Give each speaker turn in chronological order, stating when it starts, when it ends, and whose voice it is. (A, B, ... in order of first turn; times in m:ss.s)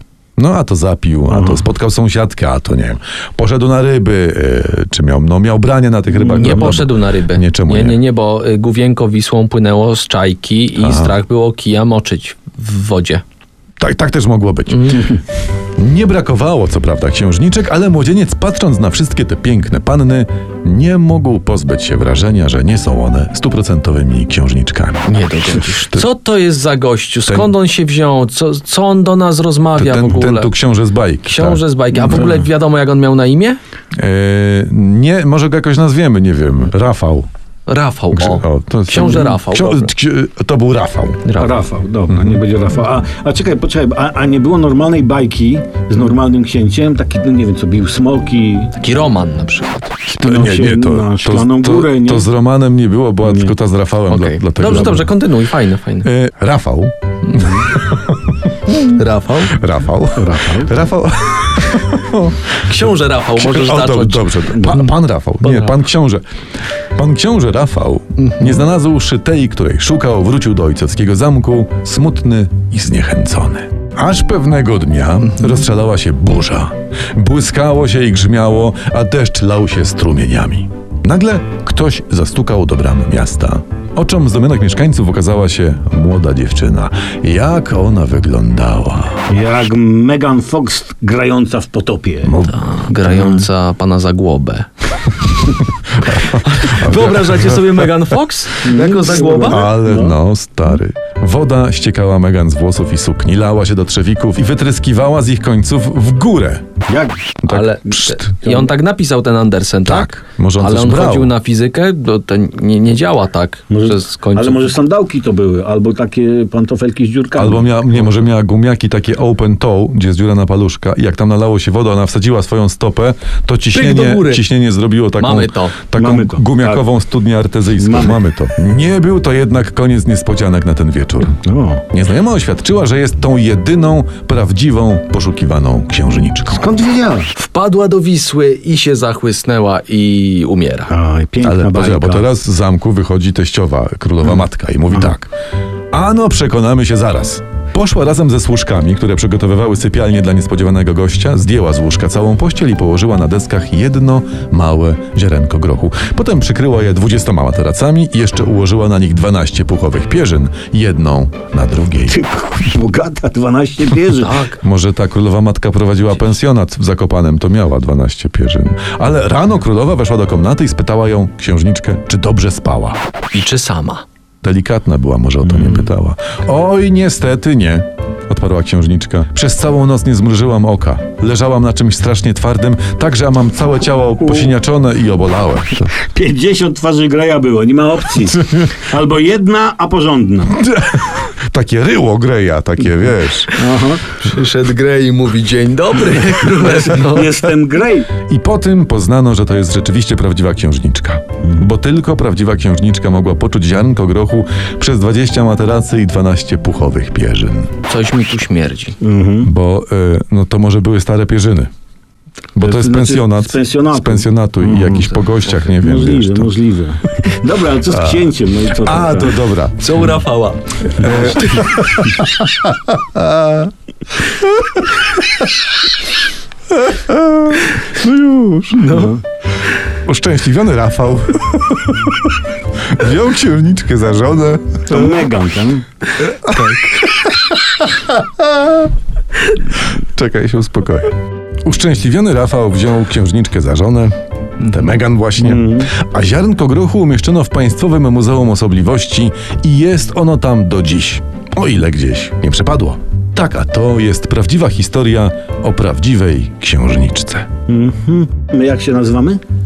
0:00.4-0:08.0 A
0:01.3-0:01.6 B
0:06.1-0:06.7 B
0:06.4-0:13.2 C
0:10.8-0:11.1 A
0:13.8-0:15.2 A
0:14.7-0:15.2 C
0:15.8-0:25.0 A
0:25.0-0:30.5 C
0:25.6-0:26.1 A
0:27.3-0:27.5 A
0:29.8-0:32.4 A
0:31.2-0:33.6 C
0:33.9-0:37.3 A
0:37.7-0:39.9 C
0:38.1-0:41.2 A
0:41.2-0:41.6 C
0:41.4-0:48.7 B
0:42.1-0:42.4 A
0:48.8-0:49.9 C
0:50.1-0:52.3 B
0:50.1-0:55.1 A
0:53.2-0:53.5 B
0:54.1-0:56.1 C
0:56.0-0:59.0 A
0:58.8-0:59.6 C
0:59.5-1:06.2 A
1:00.2-1:00.7 B
1:02.6-1:05.8 C
1:06.9-1:29.2 A
1:08.3-1:08.6 C
1:29.3-1:32.4 B
1:32.3-1:32.7 A
1:32.5-1:34.7 C
1:33.1-1:33.4 B
1:36.0-1:37.9 A
1:36.0-1:39.7 C
1:38.6-1:40.2 B
1:38.7-1:46.7 A
1:46.8-1:47.4 B
1:47.4-1:48.4 A
1:47.5-1:54.7 C
1:48.4-1:48.7 B
1:49.8-1:51.3 A
1:53.7-1:58.2 B
1:57.4-2:16.7 A
2:03.7-2:04.4 C
2:05.2-2:05.7 C
2:06.0-2:06.8 B
2:07.8-2:08.2 B
2:11.4-2:11.8 B
2:16.5-2:17.3 B
2:17.4-2:20.9 C
2:20.9-2:22.2 B
2:21.4-2:25.3 A
2:25.9-2:42.2 A
2:42.1-2:44.4 B
2:44.2-2:44.6 C
2:44.6-2:53.0 A
2:53.3-2:54.0 C
2:54.4-3:05.9 A
2:55.4-2:55.9 B
3:04.2-3:04.5 B
3:06.0-3:10.6 B
3:10.6-3:13.6 A
3:13.5-3:14.1 B
3:14.2-3:17.4 C
3:16.4-3:18.1 B
3:18.2-3:27.7 A
3:27.9-3:28.9 C
3:29.0-3:29.5 B
3:29.4-3:31.7 A
3:32.5-3:36.5 A
3:32.6-3:35.2 B
3:35.8-3:39.4 B
3:37.9-3:38.2 A
3:38.8-3:40.0 A
3:39.8-3:42.0 C
3:40.9-3:43.7 A
3:44.4-3:44.8 A
3:46.8-3:49.1 A
3:48.8-3:49.2 B
3:49.9-3:55.2 A
3:54.9-3:55.8 B
3:56.2-3:58.8 A
3:59.8-4:01.1 A
4:01.6-4:17.5 A
4:05.4-4:05.9 B
4:17.7-4:19.4 B